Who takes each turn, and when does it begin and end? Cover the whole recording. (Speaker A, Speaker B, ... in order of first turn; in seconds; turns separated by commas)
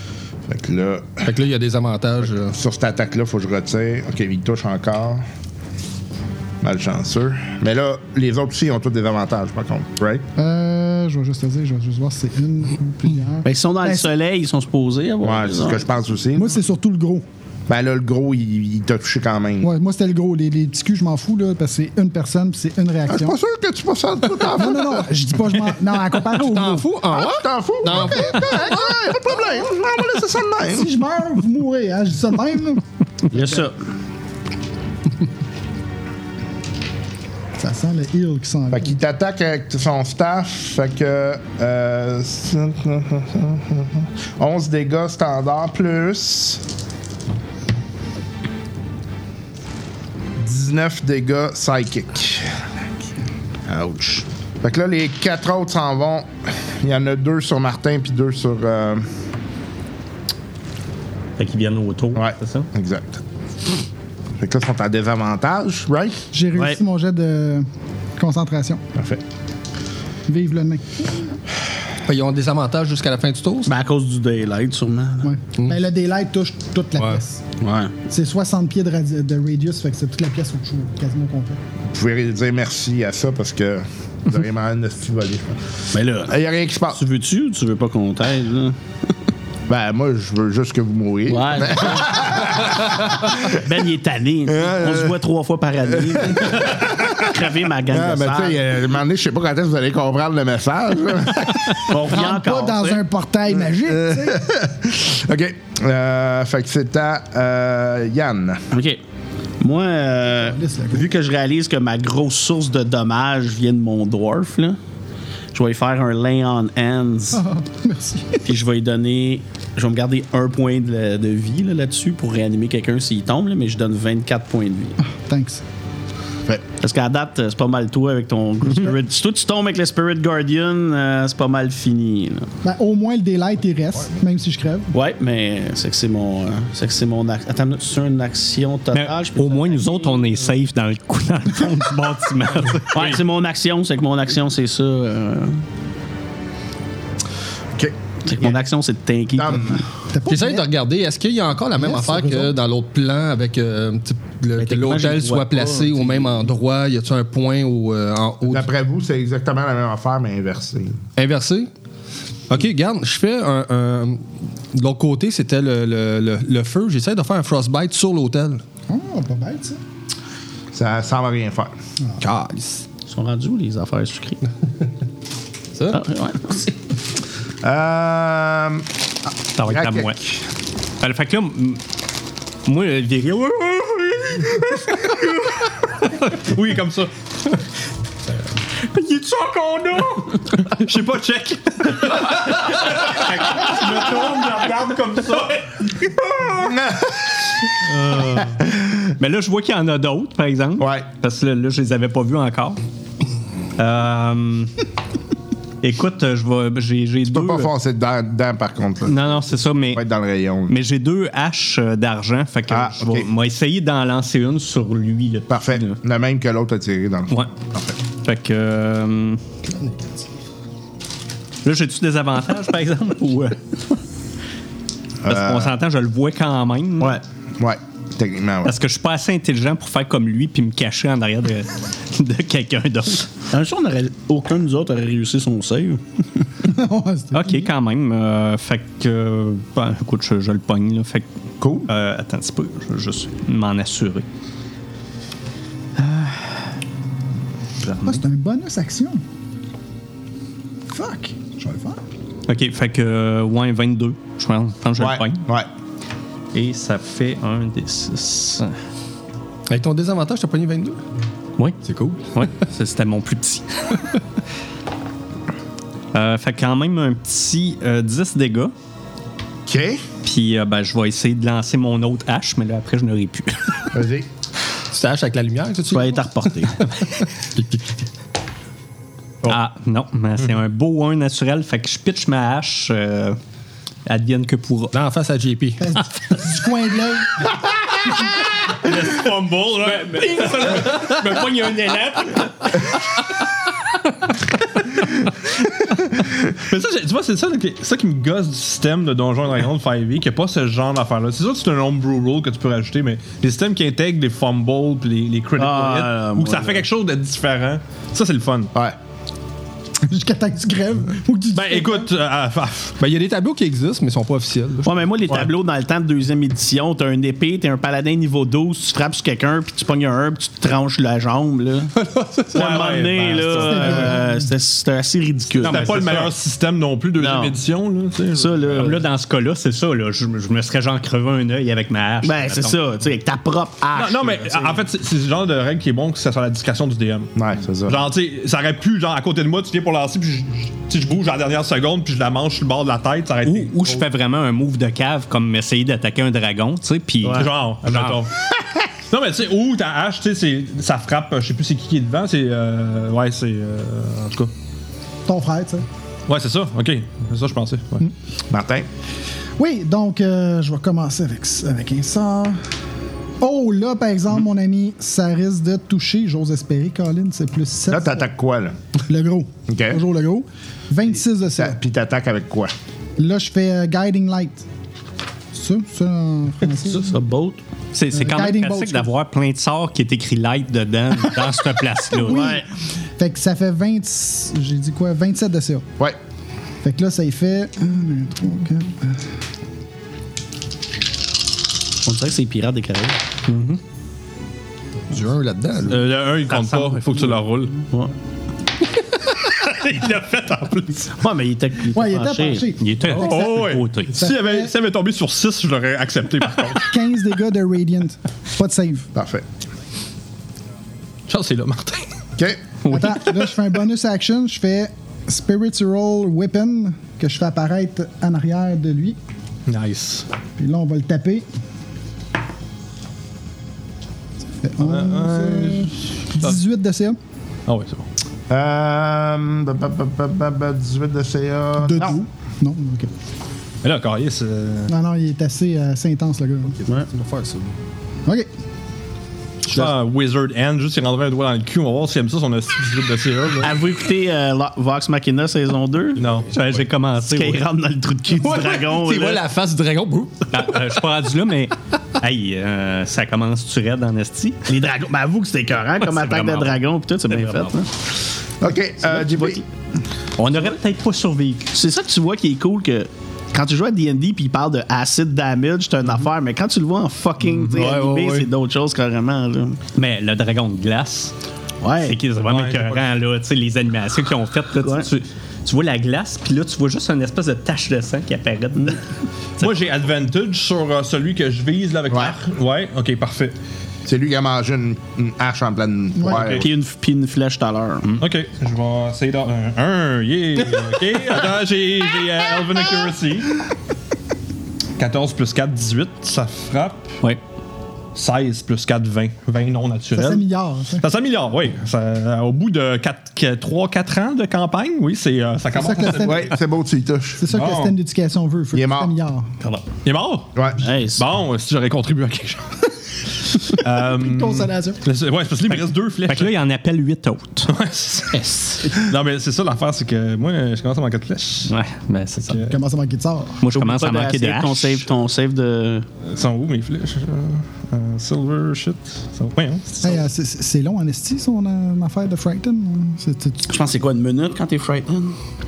Speaker A: 0.5-1.3, Speaker B: 1.2-2.5, Speaker A: 2.5-5.2, Speaker A: 6.6-10.2, Speaker C: 10.4-14.1, Speaker D: 13.4-15.8, Speaker A: 15.2-16.6, Speaker C: 16.4-17.2, Speaker A: 17.7-19.7, Speaker C: 19.6-23.4, Speaker A: 23.1-25.1, Speaker C: 24.5-27.0, Speaker B: 26.3-28.7, Speaker A: 27.1-30.9, Speaker C: 27.9-29.6, Speaker C: 30.7-32.8, Speaker D: 33.3-33.8, Speaker C: 37.6-39.0, Speaker A: 38.7-46.6, Speaker A: 50.4-52.5, Speaker D: 53.7-54.2, Speaker A: 54.6-59.1, Speaker E: 61.4-62.7, Speaker A: 62.1-63.2, Speaker A: 64.4-66.2, Speaker C: 66.3-68.8, Speaker A: 69.0-69.2, Speaker C: 70.3-71.3, Speaker B: 72.1-73.7, Speaker D: 73.7-75.3, Speaker C: 75.2-77.4, Speaker B: 77.0-77.2, Speaker D: 77.6-77.9, Speaker C: 78.1-81.6, Speaker A: 81.9-85.6, Speaker D: 85.9-86.3, Speaker A: 86.2-87.0, Speaker D: 86.9-88.8, Speaker A: 89.7-93.6, Speaker D: 91.3-92.5, Speaker D: 93.4-98.6, Speaker A: 94.5-95.2, Speaker A: 95.9-101.9, Speaker D: 101.8-103.0, Speaker C: 102.1-104.5, Speaker A: 103.8-108.6, Speaker D: 108.7-109.0, Speaker D: 109.6-114.8, Speaker C: 110.3-111.1, Speaker D: 115.5-117.4, Speaker C: 117.3-118.4, Speaker D: 118.5-125.0, Speaker C: 125.0-125.6, Speaker D: 126.8-132.5, Speaker C: 132.6-134.9, Speaker D: 134.9-140.2, Speaker E: 138.9-143.1, Speaker D: 142.9-145.6, Speaker D: 148.2-149.8, Speaker A: 149.3-149.8, Speaker C: 150.1-150.7, Speaker B: 150.3-158.7, Speaker C: 151.8-152.6, Speaker D: 154.6-156.5, Speaker A: 158.5-161.0, Speaker B: 161.2-161.7, Speaker B: 162.5-168.6, Speaker C: 168.9-169.8, Speaker A: 170.7-171.7, Speaker B: 172.2-172.8, Speaker D: 173.1-174.4, Speaker D: 175.9-176.7, Speaker A: 177.6-178.9, Speaker E: 179.6-180.2, Speaker A: 179.6-180.4, Speaker E: 181.0-181.8, Speaker E: 182.6-186.3, Speaker F: 186.4-187.1, Speaker E: 188.8-190.7, Speaker F: 190.6-196.7, Speaker E: 192.8-195.2, Speaker A: 196.6-197.3, Speaker E: 198.1-198.5, Speaker A: 198.5-198.9, Speaker E: 199.2-202.8, Speaker A: 200.8-201.1, Speaker E: 203.8-204.7, Speaker E: 205.8-207.7, Speaker A: 207.3-209.4, Speaker E: 209.1-210.0, Speaker A: 209.9-210.8, Speaker E: 210.7-215.9, Speaker A: 212.7-213.3, Speaker A: 215.5-217.9, Speaker E: 218.2-219.4, Speaker B: 219.7-220.2, Speaker E: 221.6-223.6, Speaker A: 225.2-225.7, Speaker E: 225.3-227.2, Speaker A: 227.6-228.8, Speaker E: 228.6-233.3, Speaker D: 233.5-236.0, Speaker C: 236.6-237.7, Speaker E: 237.3-244.2, Speaker A: 241.6-241.9, Speaker E: 246.0-246.6, Speaker E: 247.8-248.2, Speaker C: 248.0-249.2, Speaker C: 250.9-252.0, Speaker E: 252.5-255.4, Speaker A: 255.0-255.7, Speaker E: 256.5-258.7, Speaker B: 259.7-261.0, Speaker B: 261.8-262.3, Speaker E: 262.3-264.0, Speaker E: 266.1-268.7, Speaker A: 269.6-270.0, Speaker E: 270.2-273.9, Speaker A: 273.9-274.3, Speaker B: 274.9-276.7, Speaker D: 275.9-276.8, Speaker B: 277.5-277.8, Speaker E: 279.4-283.4, Speaker E: 284.1-284.9, Speaker B: 284.9-286.0, Speaker C: 285.8-287.4, Speaker F: 288.8-291.1, Speaker E: 288.9-292.8, Speaker F: 296.4-308.7, Speaker D: 305.6-306.9, Speaker C: 310.0-312.1, Speaker F: 311.5-313.0, Speaker B: 313.0-314.9, Speaker D: 314.8-321.9, Speaker F: 321.9-324.1, Speaker D: 322.5-326.3, Speaker C: 323.5-324.5, Speaker F: 325.6-328.9, Speaker E: 325.6-326.3, Speaker D: 327.2-327.6, Speaker D: 328.3-329.0, Speaker E: 328.7-332.8, Speaker D: 332.2-334.8, Speaker F: 333.9-337.3, Speaker A: 337.4-338.1, Speaker F: 337.9-343.8, Speaker E: 343.4-347.5, Speaker F: 347.3-348.4, Speaker F: 349.1-354.5, Speaker C: 355.3-355.9, Speaker F: 356.3-358.1, Speaker A: 358.5-358.9, Speaker C: 359.6-362.6, Speaker C: 363.4-368.2, Speaker A: 367.9-368.7, Speaker C: 369.1-371.8, Speaker A: 369.7-370.0, Speaker A: 371.6-372.7, Speaker C: 373.2-374.6, Speaker C: 375.5-377.2, Speaker D: 376.9-377.6, Speaker E: 377.9-382.6, Speaker C: 378.1-379.1, Speaker C: 382.2-382.6, Speaker D: 382.3-382.6, Speaker C: 383.2-385.9, Speaker C: 386.8-389.2, Speaker D: 392.1-393.2, Speaker E: 393.5-393.8, Speaker B: 395.1-396.0, Speaker F: 395.8-397.8, Speaker D: 396.6-396.9, Speaker F: 399.4-401.1, Speaker D: 401.1-402.6, Speaker C: 401.9-402.9, Speaker E: 402.8-404.1, Speaker F: 403.1-406.9, Speaker C: 404.1-404.7, Speaker C: 406.8-409.1, Speaker A: 409.1-409.4, Speaker F: 411.3-412.1, Speaker A: 412.4-412.6, Speaker E: 412.8-413.4, Speaker C: 412.9-419.2, Speaker F: 419.7-420.3, Speaker C: 420.6-421.4, Speaker C: 424.6-427.2, Speaker F: 424.8-426.6, Speaker F: 427.7-428.1, Speaker A: 428.5-432.2, Speaker C: 431.8-433.1, Speaker F: 433.8-434.9, Speaker C: 434.9-436.8, Speaker B: 436.7-437.7, Speaker F: 439.6-443.8, Speaker D: 443.6-446.2, Speaker F: 446.2-446.5, Speaker E: 446.5-447.6, Speaker D: 447.2-449.4, Speaker B: 448.3-450.8, Speaker E: 450.5-454.6, Speaker D: 454.6-457.9, Speaker E: 456.0-457.7, Speaker A: 458.6-459.6, Speaker D: 459.0-459.6, Speaker E: 460.4-461.7, Speaker D: 461.7-469.8, Speaker B: 467.8-468.4, Speaker E: 469.9-471.3, Speaker D: 471.8-472.2, Speaker E: 472.0-479.0, Speaker F: 472.4-473.1, Speaker D: 474.8-475.1, Speaker F: 479.6-483.6, Speaker A: 482.1-482.4, Speaker A: 484.1-486.6, Speaker C: 486.2-486.5, Speaker F: 486.3-486.7, Speaker D: 486.5-488.1, Speaker F: 488.2-493.6, Speaker F: 495.0-497.2, Speaker F: 498.1-500.4, Speaker C: 500.1-501.0, Speaker F: 501.0-506.6, Speaker C: 505.7-506.5, Speaker A: 506.1-507.4, Speaker C: 507.4-509.5, Speaker F: 507.5-507.9, Speaker A: 508.7-509.1, Speaker F: 510.0-512.9, Speaker A: 510.6-510.8, Speaker D: 510.8-511.2, Speaker F: 513.7-516.5, Speaker C: 514.0-515.0, Speaker E: 516.2-517.7, Speaker F: 517.7-521.7, Speaker E: 521.7-522.6, Speaker F: 522.4-522.8, Speaker C: 522.6-523.6, Speaker E: 523.6-525.0, Speaker D: 523.7-526.1, Speaker F: 526.2-530.2, Speaker C: 530.0-533.6, Speaker D: 533.7-535.4